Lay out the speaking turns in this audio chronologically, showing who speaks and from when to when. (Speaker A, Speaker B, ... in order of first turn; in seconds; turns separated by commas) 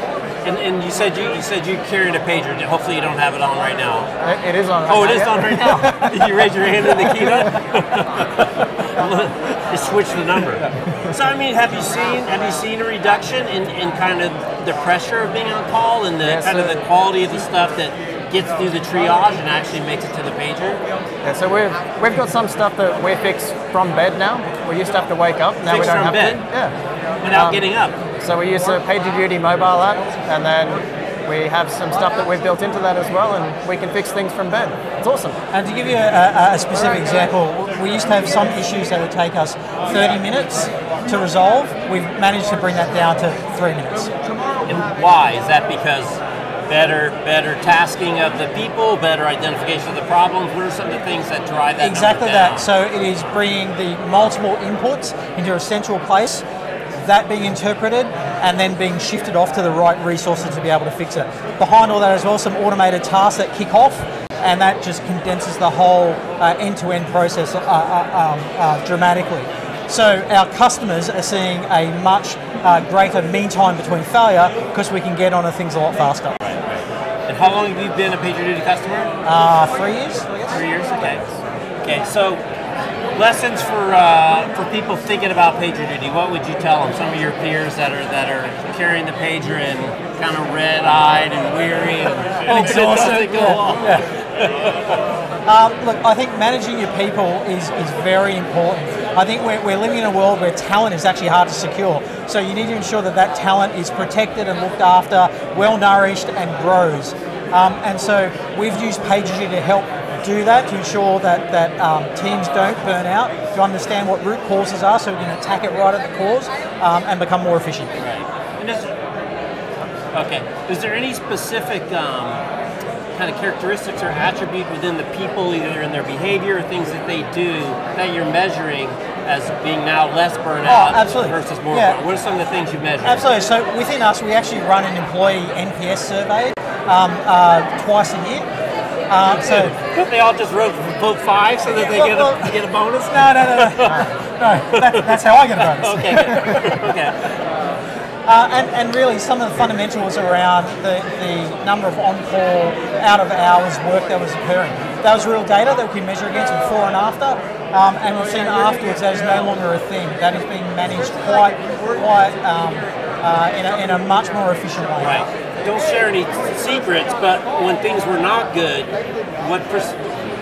Speaker A: 0.4-4.1, Speaker B: 4.2-6.3, Speaker A: 4.8-20.8, Speaker B: 16.2-16.8, Speaker B: 21.2-26.7, Speaker A: 25.6-26.4, Speaker A: 27.2-28.0, Speaker B: 27.2-27.6, Speaker B: 28.2-35.4, Speaker C: 35.5-44.1, Speaker A: 44.7-52.7, Speaker C: 51.8-56.5, Speaker C: 57.0-76.4, Speaker A: 76.4-79.1, Speaker C: 79.2-80.3, Speaker A: 80.5-81.2, Speaker A: 81.8-82.4, Speaker A: 83.1-95.0, Speaker C: 92.5-94.0, Speaker C: 95.5-117.9, Speaker A: 118.0-118.9, Speaker A: 120.1-122.4, Speaker A: 123.1-133.3, Speaker C: 130.6-132.0, Speaker C: 133.0-138.5, Speaker C: 139.1-139.7, Speaker A: 139.3-144.1, Speaker C: 141.7-146.9, Speaker A: 144.7-147.4, Speaker C: 148.2-165.2, Speaker A: 165.0-170.0